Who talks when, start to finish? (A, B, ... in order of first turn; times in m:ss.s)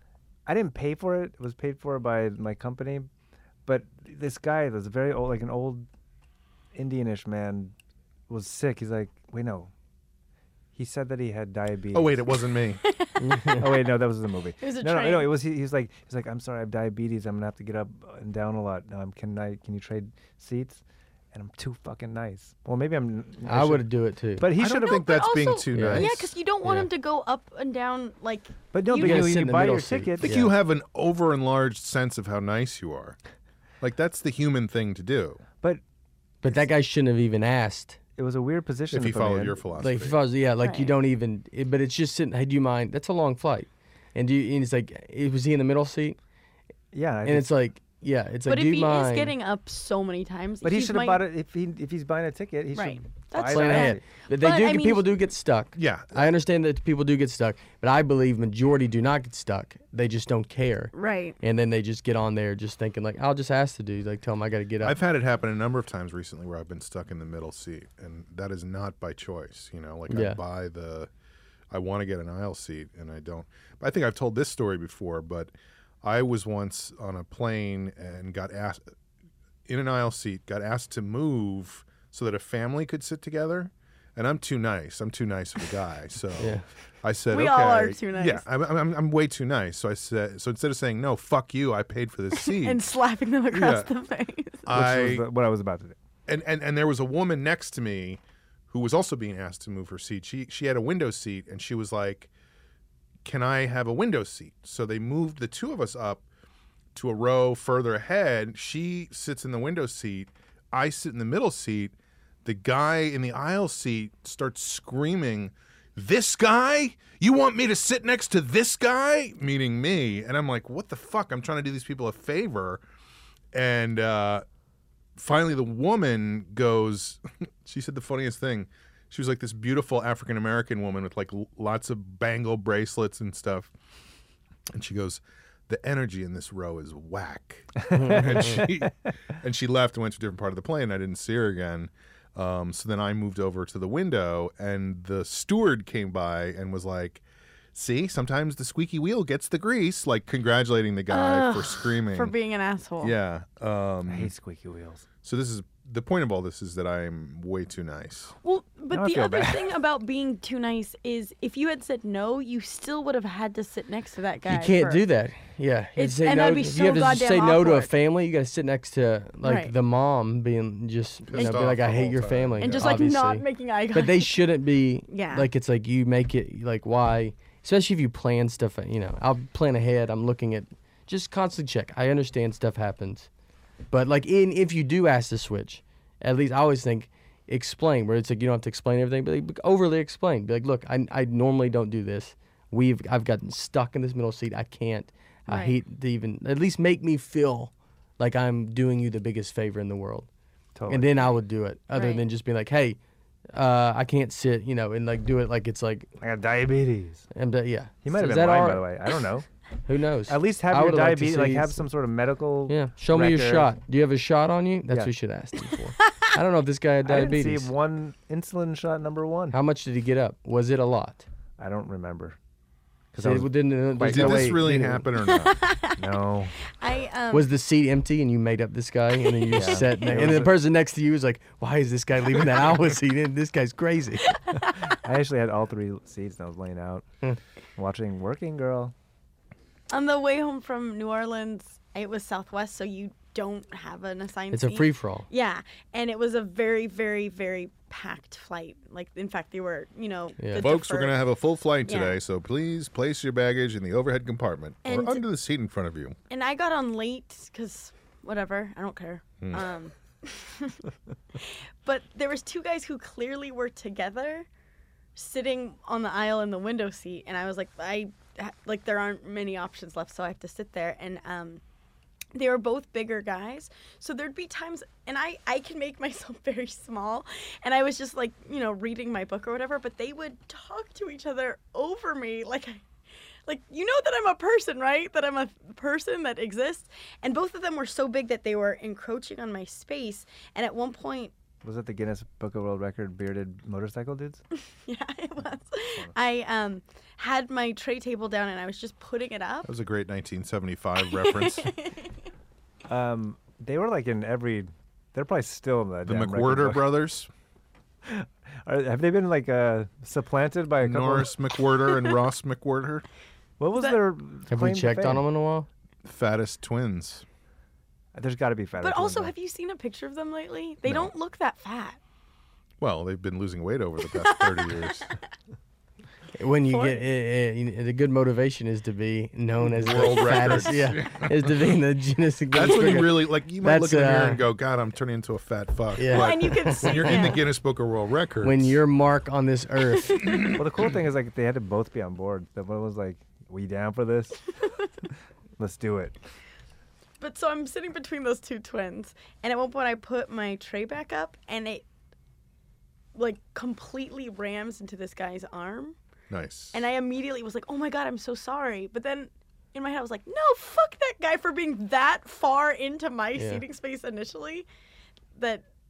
0:00.4-0:03.1 A
0:03.6-0:05.9 A
0:06.7-0:07.7 A
0:08.3-0:09.7 A
0:10.7-0:12.2 A
0:11.9-0:12.8 B
0:12.8-0:13.6 C
0:13.2-0:13.7 D
0:13.5-0:20.8 A
0:14.6-0:15.3 C
0:21.3-0:25.0 A
0:23.4-0:24.5 D
0:24.6-0:26.3 B
0:24.6-0:29.4 C
0:25.7-0:26.1 D
0:26.6-0:26.9 D
0:28.7-0:30.4 A
0:28.9-0:30.5 D
0:30.2-0:33.2 B
0:33.8-0:35.4 B
0:36.4-0:38.0 D
0:38.2-0:39.7 A
0:38.9-0:40.2 B
0:39.8-0:46.2 D
0:40.6-0:41.0 C
0:46.9-0:47.5 A
0:47.2-0:49.3 D
0:48.4-0:51.2 C
0:50.6-0:54.0 A
0:52.7-0:55.0 C
0:53.5-1:05.0 D
0:55.8-0:56.3 B
1:00.9-1:01.4 C
1:04.8-1:11.1 B
1:10.1-1:10.4 D
1:11.7-1:15.5 B
1:16.0-1:18.8 B
1:19.7-1:32.8 B
1:26.4-1:26.6 D
1:27.3-1:28.4 C
1:32.3-1:34.6 C
1:33.5-1:33.9 B
1:34.6-1:35.2 B
1:34.7-1:36.0 A
1:36.3-1:42.3 B
1:43.2-1:46.2 B
1:46.9-1:51.9 B
1:52.4-2:02.8 B
2:03.5-2:04.4 B
2:05.2-2:13.7 B
2:14.7-2:27.2 B
2:17.9-2:18.2 A
2:17.9-2:18.6 D
2:27.7-2:32.3 B
2:31.1-2:33.1 C
2:33.0-2:34.3 B
2:34.0-2:35.0 A
2:35.2-2:38.3 B
2:38.4-2:45.0 C
2:38.9-2:39.7 A
2:44.5-3:03.3 D
2:46.0-2:47.9 C
2:49.4-2:49.7 C
2:51.3-2:53.0 B
2:51.3-2:51.7 C
2:52.6-2:54.4 C
2:55.1-2:55.5 C
3:03.9-3:20.3 D
3:15.5-3:15.8 C
3:20.8-3:21.2 A
3:20.9-3:23.0 D
3:21.9-3:22.3 C
3:23.5-3:26.1 D
3:26.2-3:27.3 A
3:27.3-3:28.9 D
3:28.0-3:29.4 A
3:29.8-3:31.9 D
3:30.3-3:33.7 A
3:32.7-3:37.7 D
3:37.0-3:39.6 A
3:39.5-3:41.2 D
3:41.6-3:42.4 A
3:43.1-3:44.8 A
3:43.2-3:45.1 D
3:44.0-3:45.6 B
3:45.2-3:46.0 C
3:45.9-3:46.6 A
3:46.6-3:47.5 C
3:47.3-3:54.4 D
3:49.2-3:50.3 C
3:49.5-3:50.6 A
3:54.3-3:54.7 C
3:54.6-3:57.0 A
3:57.8-3:58.9 A
3:59.9-4:11.2 C
4:04.5-4:05.3 D
4:10.4-4:10.7 D
4:10.6-4:16.2 B
4:11.8-4:12.2 C
4:14.8-4:15.2 C
4:16.3-4:24.5 C
4:19.4-4:19.6 B
4:25.2-4:31.6 C
4:32.3-4:42.8 C
4:43.4-4:51.3 C
4:51.6-4:54.4 A
4:54.5-4:59.7 C
4:59.6-5:01.7 B
5:01.0-5:02.1 C
5:02.9-5:06.9 A
5:06.0-5:07.3 B
5:08.0-5:11.3 A
5:10.8-5:13.0 B
5:13.6-5:15.2 A
5:14.5-5:15.7 D
5:16.0-5:17.2 B
5:18.1-5:19.3 A
5:18.8-5:22.0 C
5:22.8-5:25.1 B
5:24.1-5:25.0 C
5:26.4-5:34.4 D
5:26.7-5:27.1 C
5:29.6-5:31.8 B
5:32.5-5:38.8 B
5:36.0-5:37.4 D
5:36.0-5:37.4 C
5:38.4-5:40.5 D
5:40.2-5:40.5 B
5:40.5-5:44.5 A
5:45.6-5:46.2 A
5:47.2-5:51.8 C
5:53.1-5:56.0 C
5:56.3-5:56.8 B
5:56.7-6:04.7 C
6:03.3-6:03.6 D
6:05.3-6:05.6 C